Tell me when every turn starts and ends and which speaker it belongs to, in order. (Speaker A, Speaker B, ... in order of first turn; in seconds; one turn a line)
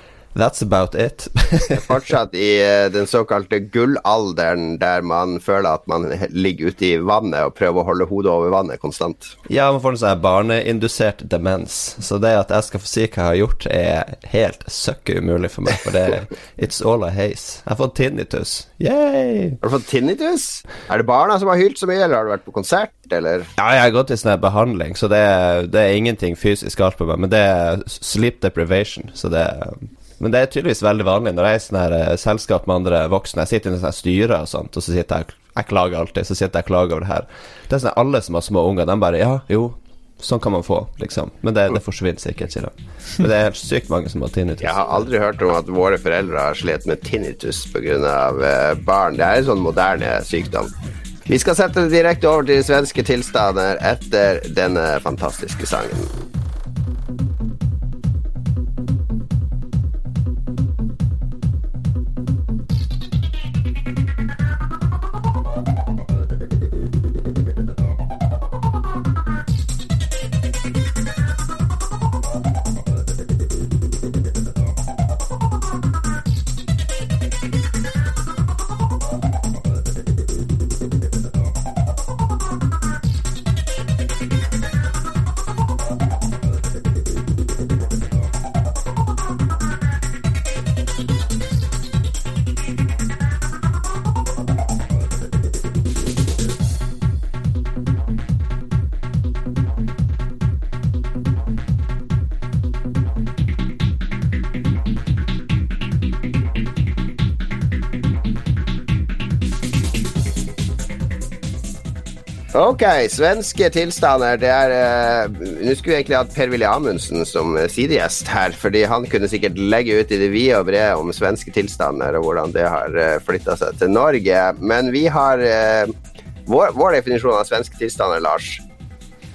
Speaker A: 0.3-1.9
Speaker B: 1.7-9.3
Speaker A: 9.5-19.6
Speaker B: 19.6-23.5
Speaker A: 23.6-45.1
Speaker B: 44.6-50.7
Speaker B: 51.3-56.1
Speaker B: 112.5-125.9
Speaker B: 126.5-128.6